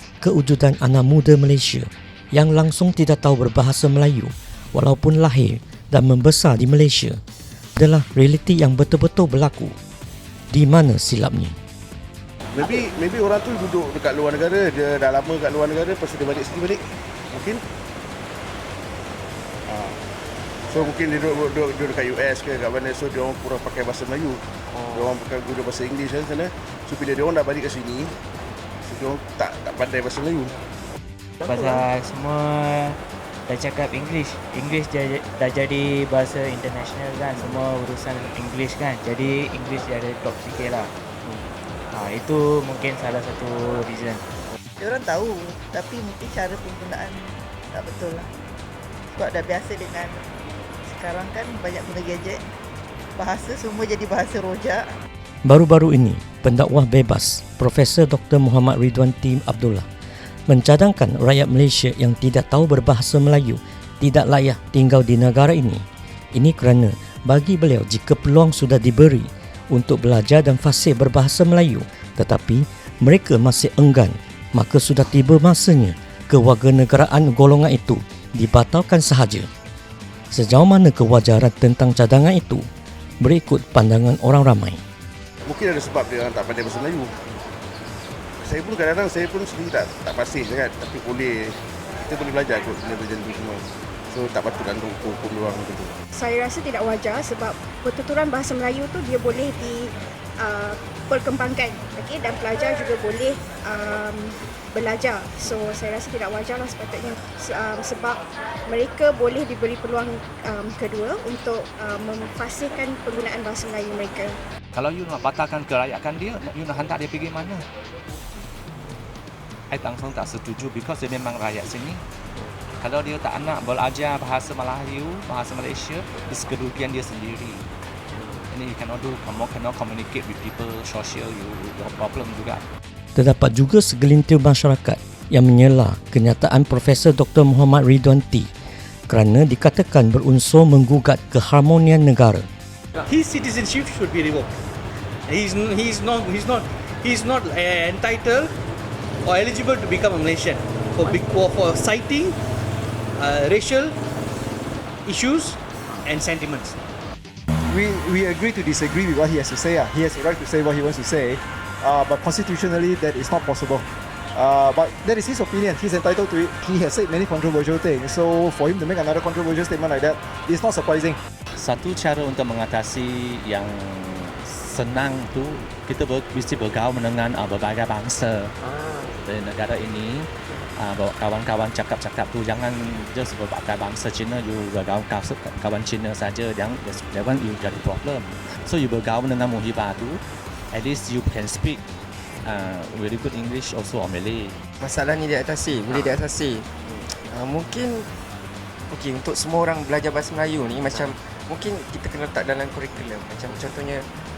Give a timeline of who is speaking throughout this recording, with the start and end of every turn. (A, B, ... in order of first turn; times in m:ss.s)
0:00.2-0:07.2 A
0:07.8-0:09.7 A
0:10.5-0:11.6 A
0:12.5-0:17.6 B
0:19.7-0:20.0 B
0:20.7-0:28.2 B
0:28.8-0:30.6 B
0:31.4-0:40.9 C
0:41.9-0:44.2 C
0:44.8-0:48.3 D
0:49.1-0:50.2 D
0:50.8-0:52.4 D
0:53.2-0:54.9 D
0:55.4-0:59.9 A
1:00.5-1:19.5 A
1:20.3-1:22.7 A
1:23.2-1:24.8 A
1:25.4-1:27.2 B
1:28.4-1:36.0 B
1:36.1-1:54.4 E
1:54.7-1:57.6 F
1:59.7-2:02.0 F
2:02.8-2:07.6 F
2:08.5-2:12.6 F
2:13.1-2:18.5 A
2:19.1-2:22.5 A
2:23.0-2:24.6 G
2:25.3-2:28.5 G
2:29.2-2:32.4 G
2:33.1-2:34.0 G
2:35.0-2:36.8 G
2:37.7-2:51.2 H
2:51.6-2:58.5 F
2:59.2-3:10.2 F
3:10.7-3:11.8 F
3:12.4-3:14.6 F
3:14.8-3:18.1 I
3:18.9-3:24.1 I